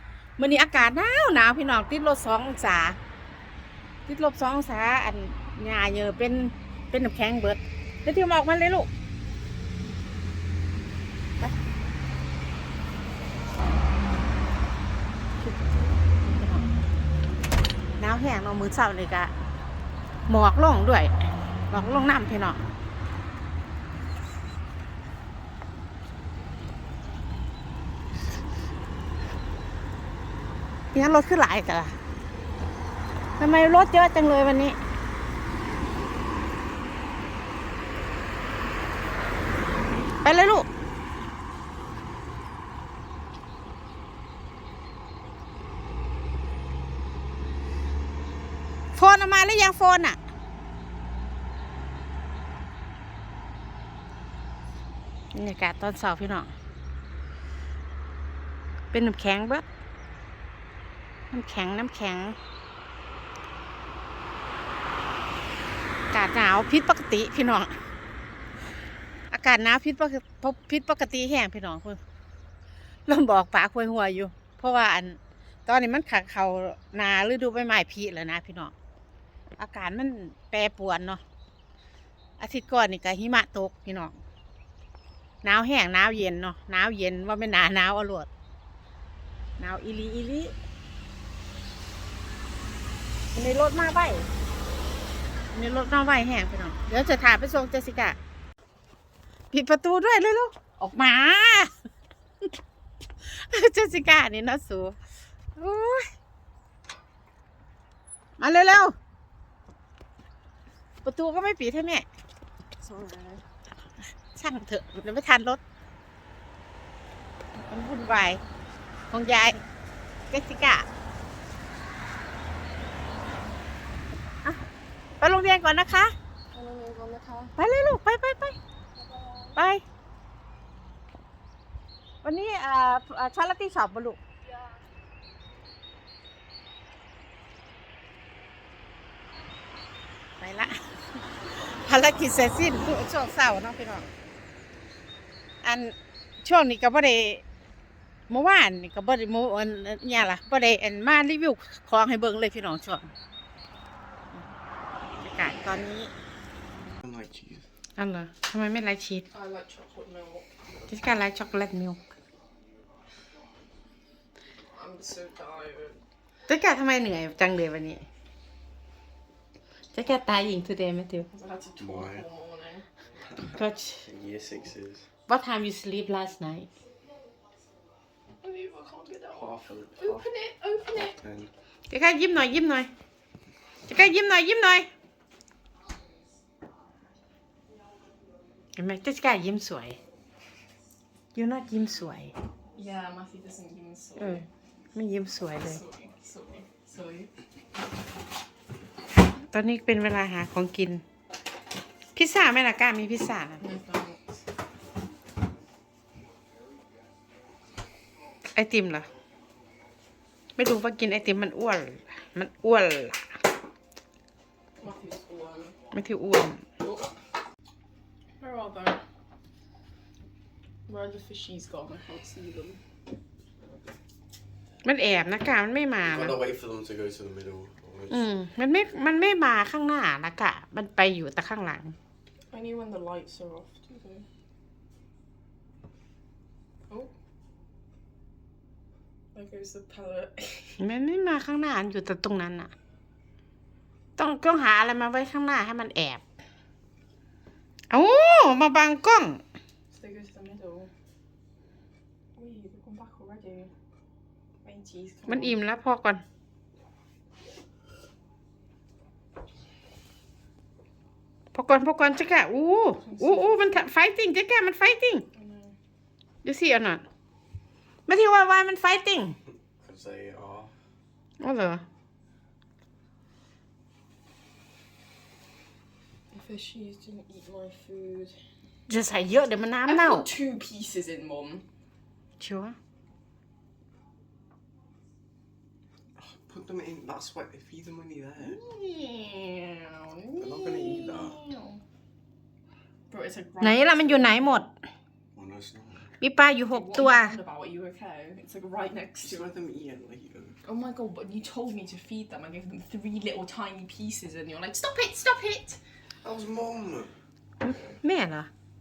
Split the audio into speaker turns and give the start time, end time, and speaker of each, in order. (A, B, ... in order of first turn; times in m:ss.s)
0:00.4-0:03.0 A
0:04.0-0:08.9 A
0:15.4-0:16.7 A
0:18.0-0:19.3 A
0:20.3-0:21.1 A
0:21.7-0:22.6 A
0:30.9-0:31.9 A
0:33.4-0:34.8 A
0:40.2-0:40.7 A
0:48.9-0:50.2 A
0:55.3-0:56.5 A
0:58.9-0:59.6 A
1:01.3-1:02.4 A
1:06.1-1:07.7 A
1:09.3-1:12.0 A
1:13.1-1:18.7 A
1:19.6-1:21.2 A
1:22.4-1:24.2 A
1:25.4-1:28.3 A
1:29.6-1:30.5 A
1:33.3-1:34.3 A
1:35.5-1:38.2 A
1:39.5-1:41.7 A
1:43.2-1:44.9 A
1:45.6-1:46.1 A
1:48.4-1:48.9 A
1:51.0-1:52.0 A
1:52.8-1:53.4 B
1:54.3-1:55.6 A
1:57.6-1:58.4 A
1:59.1-1:59.6 A
2:00.3-2:00.8 A
2:05.2-2:06.1 A
2:06.5-2:07.5 B
2:07.6-2:08.6 A
2:09.0-2:09.5 B
2:09.6-2:09.8 A
2:12.2-2:14.2 A
2:20.4-2:20.8 A
2:21.5-2:24.1 A
2:25.6-2:27.4 A
2:28.3-2:33.1 A
2:35.2-2:36.1 A
2:37.0-2:37.6 C
2:38.0-2:39.2 A
2:39.3-2:40.5 B
2:40.9-2:42.0 A
2:44.7-2:46.0 B
2:46.5-2:48.0 A
2:49.9-2:51.3 A
2:51.3-2:52.8 B
2:51.8-2:52.3 C
2:53.4-2:54.1 A
2:54.0-2:55.1 C
2:55.3-2:56.7 A
2:58.4-3:01.2 B
2:59.3-3:00.2 C
3:01.0-3:01.5 C
3:01.9-3:02.9 A
3:03.9-3:04.9 A
3:08.8-3:10.0 A
3:11.3-3:12.3 A
3:12.8-3:14.5 B
3:14.2-3:15.8 A
3:15.6-3:17.3 B
3:19.5-3:21.0 A
3:22.1-3:23.6 A
3:23.6-3:24.2 B
3:28.5-3:29.1 A
3:30.6-3:33.2 A
3:34.8-3:35.8 B
3:35.9-3:36.6 A
3:36.8-3:37.1 B
3:38.4-3:39.0 B
3:40.9-3:42.8 B
3:44.8-3:46.4 A
3:46.0-3:48.3 C
3:48.1-3:51.9 A
3:52.5-3:54.2 B
3:59.3-4:00.8 B
4:00.8-4:02.7 A
4:04.2-4:06.2 A
4:07.9-4:09.4 A
4:09.9-4:10.9 B
4:12.4-4:13.7 B
4:14.6-4:15.6 B
4:15.3-4:16.2 A
4:21.5-4:25.3 A
4:23.0-4:23.9 B
4:25.3-4:25.8 B
4:26.4-4:27.0 A
4:28.1-4:29.4 A
4:29.8-4:30.7 C
4:31.4-4:31.8 A
4:36.3-4:38.3 B
4:38.9-4:40.3 A
4:39.9-4:41.6 B
4:42.4-4:42.8 A
4:46.2-4:48.6 C
4:48.4-4:51.8 B
4:50.4-4:51.4 C
4:53.1-4:54.6 B
4:53.6-4:54.7 A
4:55.3-4:56.1 C
4:56.2-4:57.3 A
4:56.7-4:59.4 B
4:59.2-5:00.6 C
5:00.6-5:05.8 B
5:06.2-5:07.1 C
5:07.6-5:08.5 A